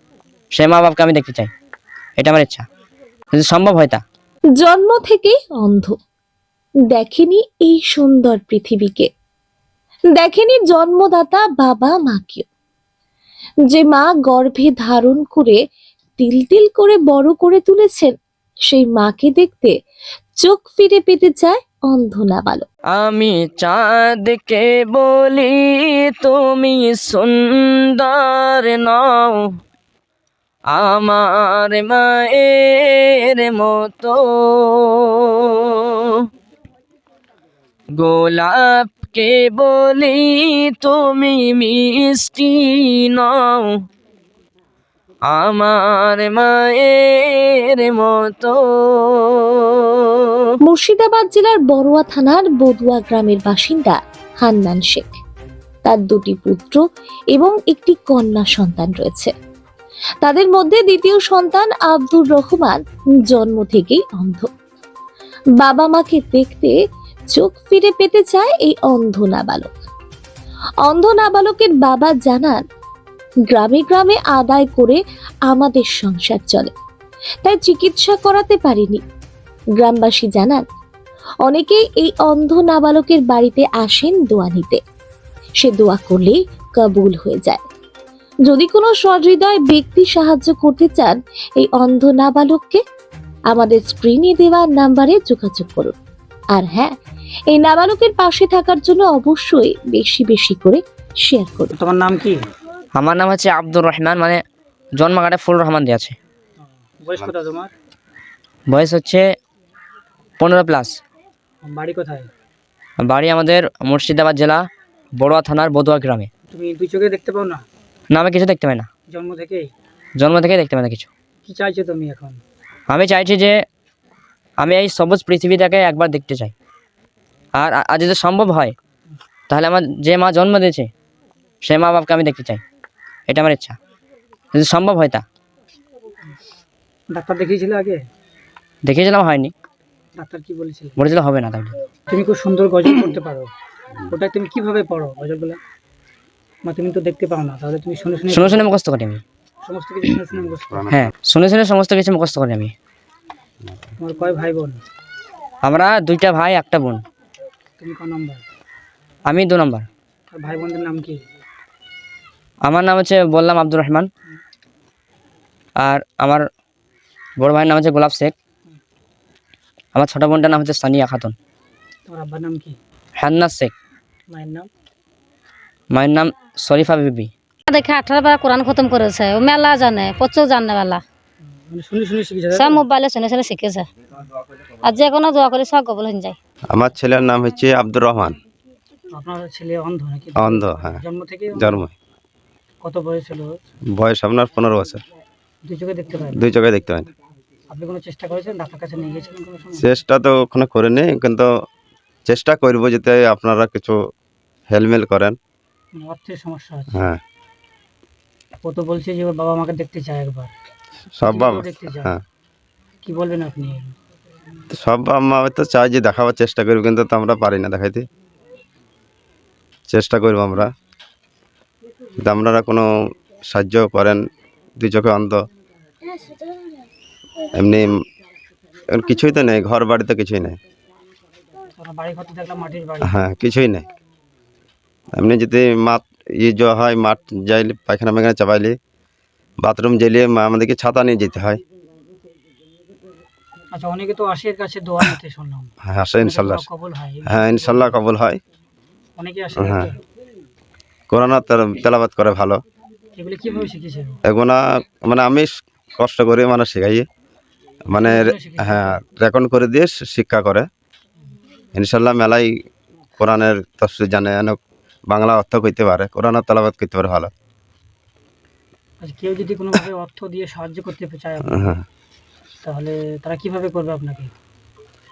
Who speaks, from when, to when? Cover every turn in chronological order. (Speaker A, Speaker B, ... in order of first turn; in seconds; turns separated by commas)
Speaker A: 0.5-1.5, Speaker A: 2.2-2.6, Speaker A: 3.3-4.0, Speaker B: 4.6-6.0, Speaker B: 6.9-9.1, Speaker B: 10.2-12.5, Speaker B: 13.7-15.6, Speaker B: 16.2-18.1, Speaker B: 18.7-19.7, Speaker B: 20.4-22.7, Speaker A: 23.0-29.4, Speaker A: 30.7-35.0, Speaker A: 38.0-43.7, Speaker A: 45.3-49.1, Speaker B: 50.7-55.1, Speaker B: 55.9-56.8, Speaker B: 57.3-59.3, Speaker B: 60.2-62.8, Speaker B: 63.3-64.5, Speaker B: 65.6-66.8, Speaker B: 67.3-69.7, Speaker B: 70.9-72.6, Speaker B: 73.5-76.7, Speaker B: 77.4-79.0, Speaker B: 79.8-80.6, Speaker B: 81.5-84.8, Speaker B: 85.6-87.6, Speaker B: 88.5-92.8, Speaker B: 93.5-95.9, Speaker B: 96.5-96.9, Speaker B: 97.5-101.7, Speaker C: 101.8-102.4, Speaker A: 103.0-104.4, Speaker A: 105.0-106.2, Speaker C: 107.0-107.7, Speaker A: 108.7-109.2, Speaker A: 110.4-111.0, Speaker C: 111.6-112.3, Speaker A: 113.0-114.6, Speaker A: 115.2-116.3, Speaker C: 116.5-117.7, Speaker A: 118.1-118.9, Speaker C: 119.1-119.7, Speaker A: 120.2-121.1, Speaker C: 121.5-122.4, Speaker A: 122.9-123.6, Speaker A: 124.6-126.5, Speaker A: 127.5-128.8, Speaker A: 129.5-130.9, Speaker A: 131.6-132.6, Speaker A: 133.3-133.8, Speaker A: 134.5-135.2, Speaker C: 137.1-138.0, Speaker A: 138.8-139.5, Speaker C: 140.2-141.0, Speaker A: 141.0-141.8, Speaker C: 142.1-143.5, Speaker C: 144.1-145.6, Speaker C: 146.7-148.6, Speaker A: 148.3-149.2, Speaker C: 149.7-150.9, Speaker D: 150.3-151.1, Speaker A: 150.9-152.7, Speaker C: 154.0-154.8, Speaker A: 155.6-157.0, Speaker C: 157.8-158.4, Speaker A: 159.3-159.9, Speaker C: 160.3-161.2, Speaker A: 162.7-164.1, Speaker A: 165.8-166.5, Speaker A: 167.4-168.3, Speaker A: 169.9-171.3, Speaker C: 172.1-172.8, Speaker A: 173.2-173.7, Speaker C: 174.3-174.7, Speaker A: 175.9-177.3, Speaker E: 177.7-181.0, Speaker C: 181.7-182.8, Speaker E: 182.5-183.9, Speaker E: 184.8-186.4, Speaker D: 186.7-188.4, Speaker C: 189.1-191.8, Speaker D: 190.4-191.0, Speaker D: 191.5-191.9, Speaker C: 192.8-193.5, Speaker D: 193.9-195.0, Speaker C: 195.7-196.4, Speaker D: 196.3-197.1, Speaker C: 197.7-199.9, Speaker D: 199.8-201.5, Speaker D: 202.3-204.0, Speaker D: 204.7-205.4, Speaker C: 205.9-207.0, Speaker D: 206.9-207.2, Speaker C: 208.6-210.5, Speaker D: 211.2-212.2, Speaker C: 211.3-212.1, Speaker C: 213.0-213.9, Speaker D: 214.7-218.1, Speaker D: 219.9-220.7, Speaker D: 222.2-222.9, Speaker D: 223.5-224.2, Speaker D: 224.8-225.4, Speaker D: 227.6-227.9, Speaker D: 228.9-230.6, Speaker C: 231.8-233.2, Speaker D: 233.0-233.9, Speaker D: 235.1-238.8, Speaker D: 239.6-241.6, Speaker C: 243.7-248.0, Speaker D: 245.8-246.7, Speaker D: 247.3-248.4, Speaker C: 249.2-250.0, Speaker D: 249.6-249.9, Speaker D: 251.1-252.6, Speaker C: 253.2-254.2, Speaker D: 254.3-257.1, Speaker D: 257.9-260.7, Speaker C: 257.9-259.0, Speaker D: 261.8-262.6, Speaker D: 263.2-267.3, Speaker C: 269.0-271.8, Speaker D: 271.5-271.8, Speaker C: 272.6-274.3